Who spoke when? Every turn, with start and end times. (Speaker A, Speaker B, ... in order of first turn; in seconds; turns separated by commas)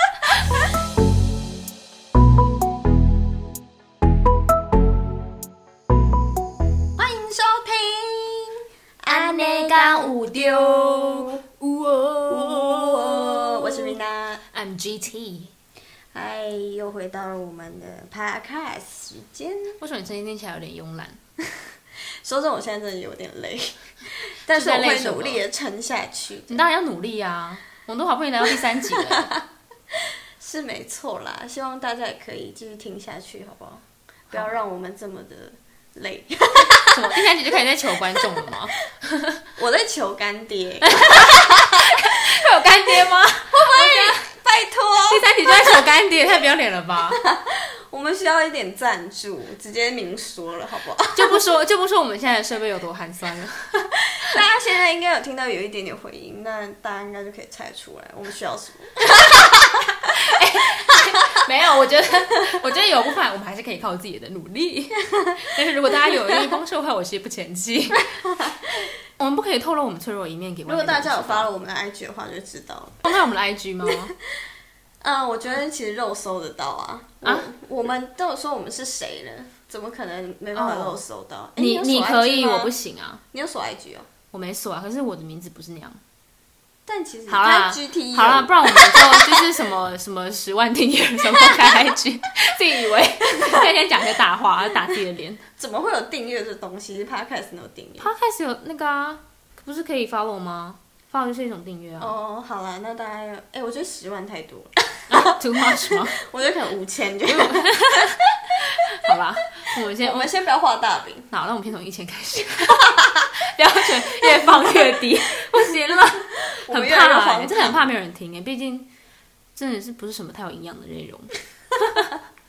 Speaker A: 7.0-11.4, Speaker B: 9.1-13.9, Speaker A: 12.3-14.4, Speaker B: 14.5-15.5, Speaker A: 16.1-19.8, Speaker B: 19.8-21.2, Speaker A: 22.2-26.6, Speaker B: 24.5-25.4, Speaker B: 26.5-29.3, Speaker A: 28.9-37.3, Speaker B: 36.9-39.4, Speaker A: 38.2-38.5, Speaker A: 39.6-42.1, Speaker B: 40.8-44.3, Speaker A: 43.0-45.9, Speaker B: 45.1-47.2, Speaker A: 47.1-51.4, Speaker B: 51.1-53.9, Speaker A: 54.2-60.4, Speaker B: 60.2-68.2, Speaker A: 60.9-61.4, Speaker A: 68.1-68.9, Speaker B: 69.2-71.5, Speaker A: 70.7-73.1, Speaker B: 73.0-74.1, Speaker A: 75.0-82.7, Speaker B: 77.2-77.5, Speaker B: 80.5-81.0, Speaker B: 81.6-83.2, Speaker A: 83.3-84.1, Speaker B: 84.3-86.0, Speaker A: 86.9-89.6, Speaker B: 87.3-95.4, Speaker A: 91.2-91.9, Speaker A: 93.3-93.7, Speaker A: 95.6-98.1, Speaker B: 98.0-102.1, Speaker A: 102.0-108.2, Speaker B: 105.1-106.2, Speaker B: 107.3-110.3, Speaker A: 110.0-111.3, Speaker B: 111.3-118.9, Speaker A: 113.0-113.3, Speaker A: 114.1-117.9, Speaker B: 119.5-121.3, Speaker B: 121.8-122.1